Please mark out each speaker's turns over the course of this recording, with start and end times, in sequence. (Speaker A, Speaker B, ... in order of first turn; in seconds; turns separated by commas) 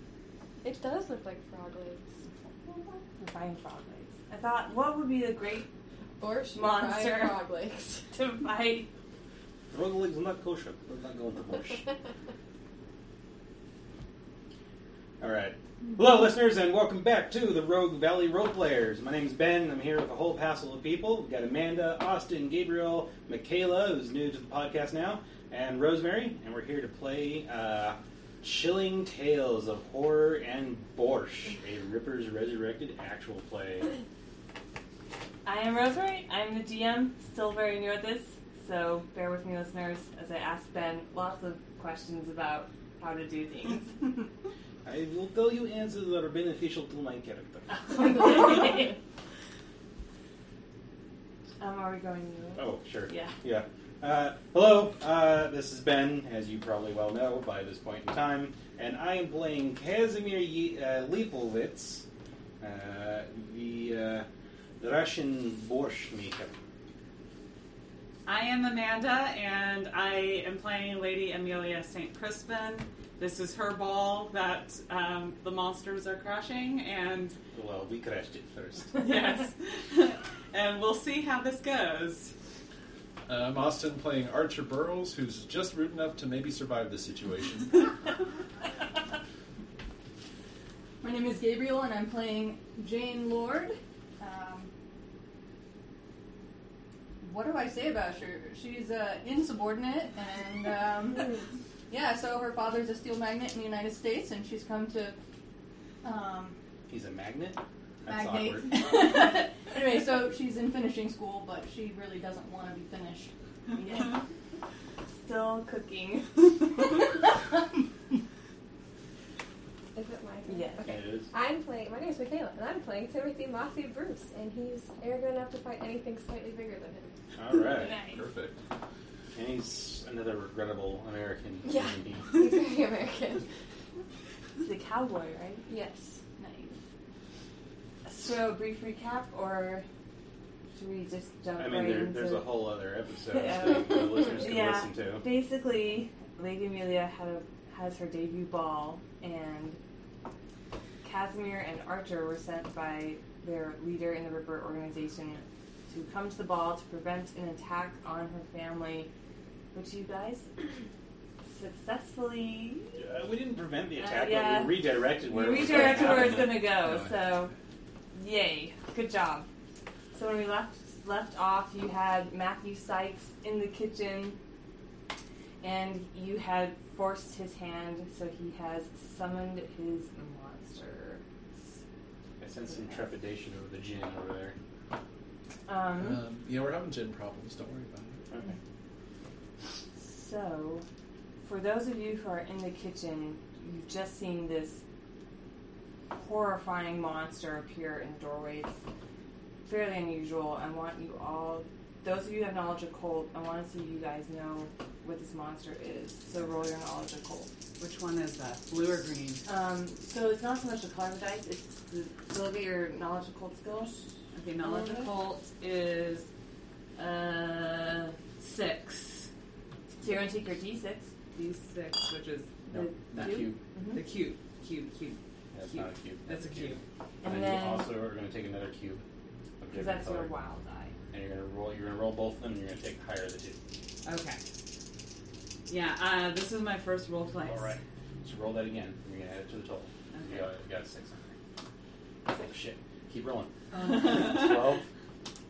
Speaker A: 0.6-2.1, Speaker B: 3.2-5.7, Speaker A: 6.2-8.0, Speaker B: 6.5-7.5, Speaker B: 8.1-8.9, Speaker C: 9.7-11.8, Speaker C: 15.2-33.9, Speaker B: 35.4-43.9, Speaker C: 44.8-48.1, Speaker B: 47.7-48.9, Speaker B: 51.6-53.3, Speaker C: 52.5-62.0, Speaker C: 62.6-64.3, Speaker C: 64.8-66.5, Speaker D: 68.2-77.4, Speaker C: 77.5-79.0, Speaker D: 79.0-82.3, Speaker E: 83.3-88.0, Speaker F: 91.0-94.7, Speaker F: 97.2-101.4, Speaker F: 101.9-105.2, Speaker F: 106.0-106.5, Speaker C: 106.9-108.9, Speaker F: 108.1-114.2, Speaker B: 113.8-114.1, Speaker B: 115.2-116.9, Speaker A: 119.9-127.1, Speaker B: 120.5-121.0, Speaker C: 120.8-121.3, Speaker C: 127.3-128.0, Speaker B: 127.8-128.2, Speaker E: 127.9-128.6, Speaker C: 129.3-132.4, Speaker A: 131.6-133.5, Speaker B: 134.6-135.7, Speaker A: 135.7-136.2, Speaker F: 136.4-136.7, Speaker B: 138.0-139.8, Speaker B: 140.7-142.6, Speaker C: 141.6-145.2, Speaker B: 143.3-149.8, Speaker B: 151.0-159.1, Speaker B: 159.7-160.5, Speaker B: 161.4-163.0, Speaker C: 162.9-166.7, Speaker B: 164.0-167.5, Speaker E: 166.1-167.2, Speaker B: 168.1-169.5, Speaker B: 170.1-174.4, Speaker B: 175.6-181.2, Speaker C: 182.4-184.6, Speaker B: 182.7-183.1, Speaker B: 185.7-186.2, Speaker E: 185.9-188.2, Speaker C: 188.3-188.5, Speaker B: 190.0-190.8, Speaker B: 191.4-194.8, Speaker B: 196.1-198.7, Speaker B: 199.7-207.5, Speaker D: 207.8-209.4, Speaker B: 209.4-214.1, Speaker D: 214.3-216.3, Speaker B: 214.6-215.1, Speaker D: 217.0-219.3, Speaker B: 217.0-218.1, Speaker B: 220.0-221.1, Speaker D: 221.3-225.2, Speaker C: 222.7-223.6, Speaker B: 222.8-224.0, Speaker C: 225.5-226.7, Speaker D: 225.7-226.8, Speaker B: 227.2-227.9, Speaker C: 227.2-229.0, Speaker C: 229.6-230.3, Speaker B: 229.7-230.9, Speaker C: 231.1-233.6, Speaker D: 234.0-234.4, Speaker D: 235.7-237.7, Speaker C: 237.4-241.3, Speaker D: 240.1-240.4, Speaker C: 242.2-244.8, Speaker D: 243.7-244.5